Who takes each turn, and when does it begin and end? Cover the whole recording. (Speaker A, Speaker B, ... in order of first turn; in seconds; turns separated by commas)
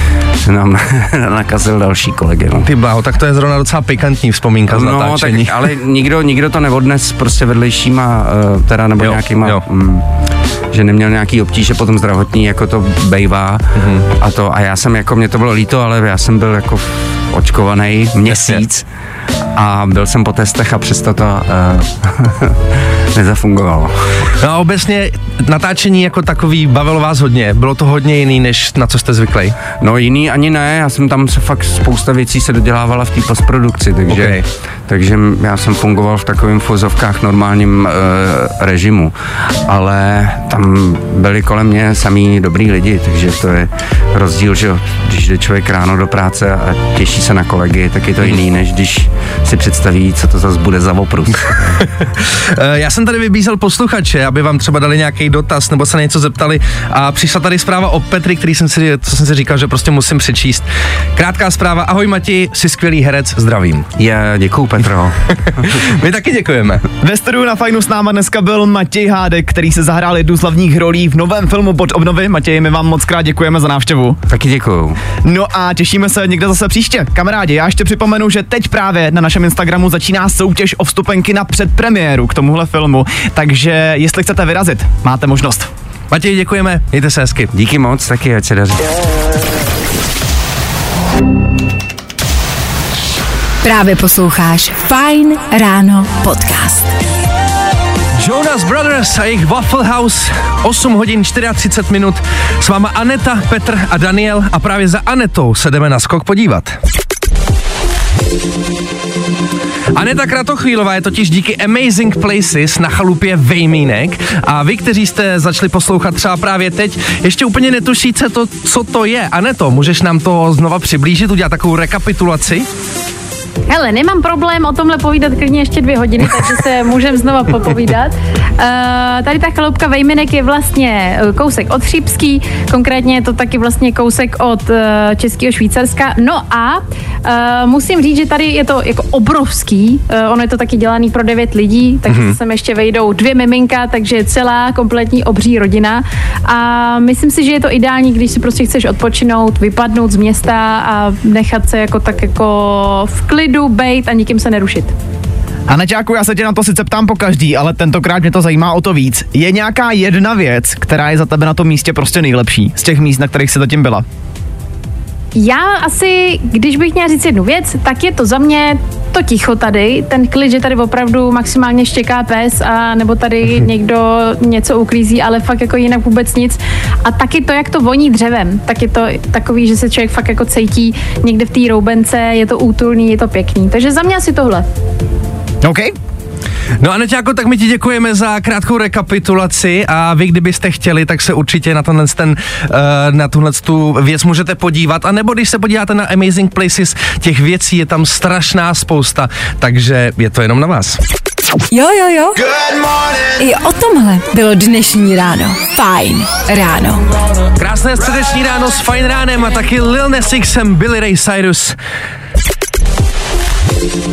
Speaker A: 0.4-2.7, Speaker B: 2.6-5.7, Speaker A: 4.7-10.1, Speaker B: 9.0-9.6, Speaker A: 10.7-18.9, Speaker B: 13.8-14.1, Speaker B: 18.3-18.6, Speaker A: 19.6-22.6, Speaker A: 23.1-23.9, Speaker B: 24.4-29.6, Speaker A: 29.8-39.1, Speaker B: 34.1-34.5, Speaker A: 39.7-51.8, Speaker B: 51.8-60.6, Speaker B: 61.2-63.9, Speaker A: 64.0-65.7, Speaker B: 65.5-66.8, Speaker C: 67.0-74.2, Speaker A: 74.3-75.0, Speaker C: 75.2-85.7, Speaker B: 86.1-87.5, Speaker A: 87.5-89.0, Speaker D: 93.6-96.9, Speaker B: 98.2-106.8, Speaker B: 109.9-122.7, Speaker E: 123.7-154.9, Speaker B: 142.1-142.4, Speaker C: 155.7-164.1, Speaker E: 165.3-184.7, Speaker C: 185.6-185.9, Speaker B: 186.8-201.0, Speaker D: 201.7-202.4, Speaker D: 203.4-207.1, Speaker B: 207.6-211.8